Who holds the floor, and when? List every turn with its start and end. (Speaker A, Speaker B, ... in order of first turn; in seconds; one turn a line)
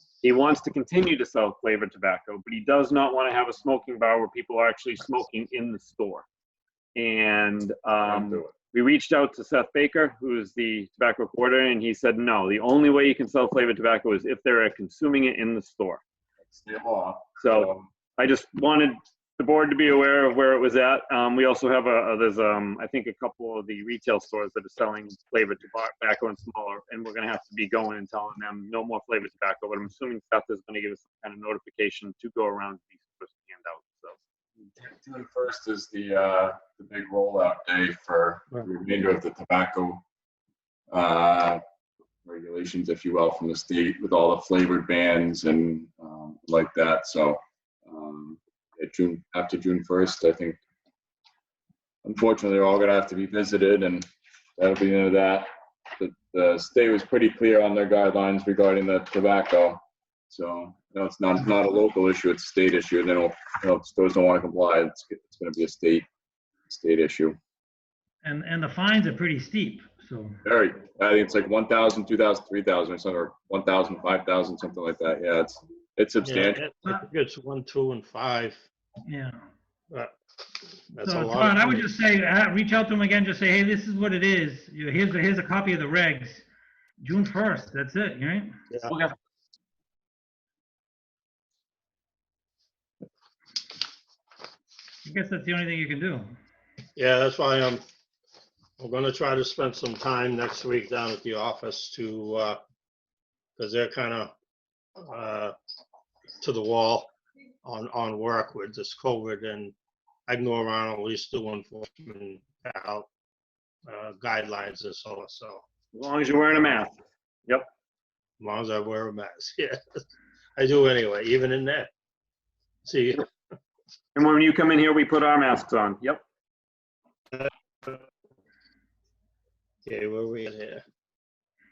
Speaker A: 0.2-6.3
Speaker A: 7.0-16.0
Speaker B: 8.0-8.5
Speaker B: 16.4-17.9
Speaker A: 17.4-34.2
Speaker B: 34.7-40.0
Speaker B: 40.9-41.6
Speaker B: 42.2-50.6
Speaker B: 52.0-54.1
Speaker B: 54.6-66.1
Speaker B: 66.7-67.4
Speaker C: 68.2-70.4
Speaker B: 70.5-76.6
Speaker D: 76.2-78.7
Speaker C: 79.1-79.4
Speaker D: 79.9-81.9
Speaker C: 81.0-86.5
Speaker C: 87.0-88.5
Speaker A: 88.9-89.2
Speaker C: 95.1-96.4
Speaker D: 97.0-97.8
Speaker D: 98.8-102.6
Speaker D: 103.6-104.3
Speaker D: 105.0-105.5
Speaker D: 106.4-107.1
Speaker D: 107.7-109.7
Speaker D: 110.3-113.1
Speaker D: 113.9-115.6
Speaker A: 115.9-117.0
Speaker D: 118.4-120.0
Speaker D: 120.6-121.9
Speaker D: 122.8-123.3
Speaker A: 124.2-126.2
Speaker D: 127.3-128.0
Speaker D: 129.9-130.8